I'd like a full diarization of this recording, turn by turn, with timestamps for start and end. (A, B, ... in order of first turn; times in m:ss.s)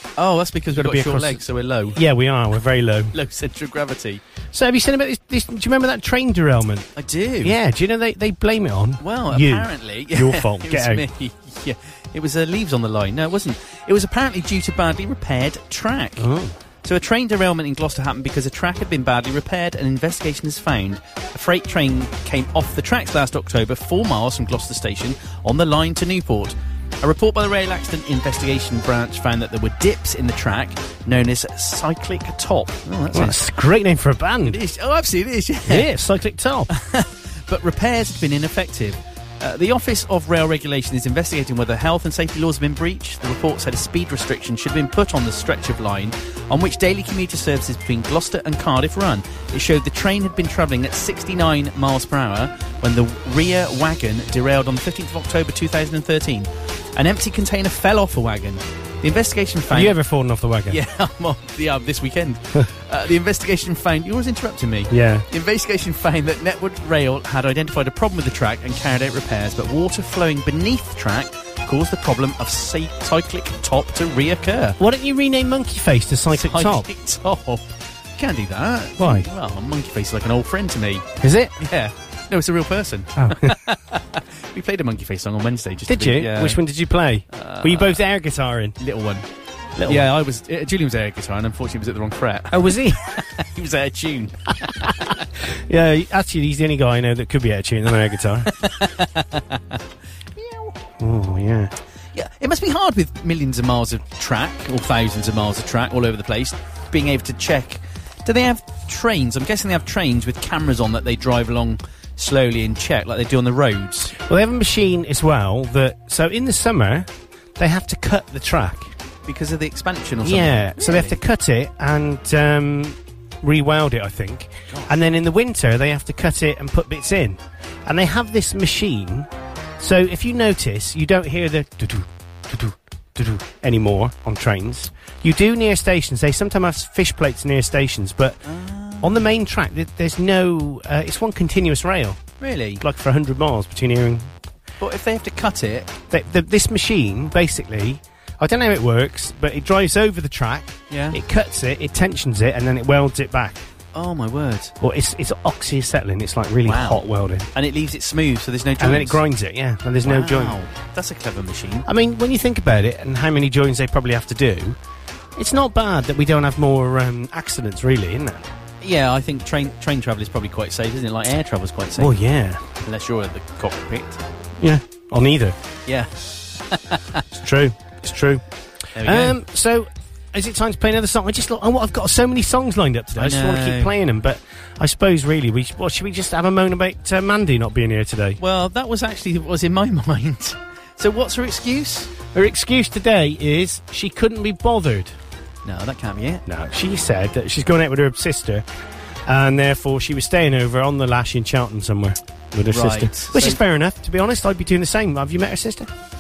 0:00.2-0:02.0 A
0:00.7-0:01.4 B
0:01.9-0:03.1 B
0:03.1-0:04.2 A
0:04.5-0:06.9 B
0:07.0-0:07.6 A
0:07.4-0:11.0 B
0:09.0-0:16.3 A
0:16.2-0:16.6 B
0:16.8-0:33.4 A
0:33.1-0:34.6 B
0:34.4-0:35.9 A
0:35.7-0:36.7 B
0:36.7-1:00.0 A
0:59.7-1:00.8 B
1:00.7-1:14.8 A
1:04.9-1:05.2 B
1:14.8-1:16.9 B
1:16.3-1:21.1 A
1:19.0-1:19.3 B
1:21.2-1:21.6 B
1:21.6-1:26.6 A
1:23.2-1:23.6 B
1:25.9-1:28.8 B
1:27.3-1:28.0 A
1:28.8-1:29.2 A
1:29.8-1:30.1 B
1:29.8-1:35.2 A
1:32.5-1:33.0 B
1:35.7-1:38.5 B
1:38.6-1:39.8 A
1:40.4-1:40.7 A
1:41.0-1:41.7 B
1:42.1-1:54.2 A
1:54.2-1:58.9 B
1:59.3-2:01.2 A
2:00.2-2:18.4 B
2:18.5-2:19.3 A
2:19.0-2:22.2 B
2:22.4-2:22.8 A
2:22.8-2:24.3 B
2:24.8-2:25.9 A
2:26.1-2:33.6 B
2:30.9-2:31.2 A
2:33.9-2:34.7 A
2:34.8-2:37.5 B
2:36.6-2:37.0 A
2:37.5-2:39.2 A
2:38.8-2:40.6 B
2:40.0-2:41.9 A
2:41.9-2:44.8 B
2:45.4-2:48.4 B
2:48.8-2:52.2 A
2:52.0-2:52.6 B
2:52.8-2:54.2 A
2:54.6-2:55.6 B
2:55.9-2:56.1 A
2:56.7-2:57.2 A
2:57.3-2:58.4 B
2:59.0-2:59.4 A
2:59.0-3:08.4 B
3:03.1-3:03.9 A
3:08.4-3:12.1 A
3:12.3-3:15.1 B
3:15.6-3:16.4 A
3:16.5-3:18.6 B
3:19.3-3:25.9 B
3:22.7-3:23.6 A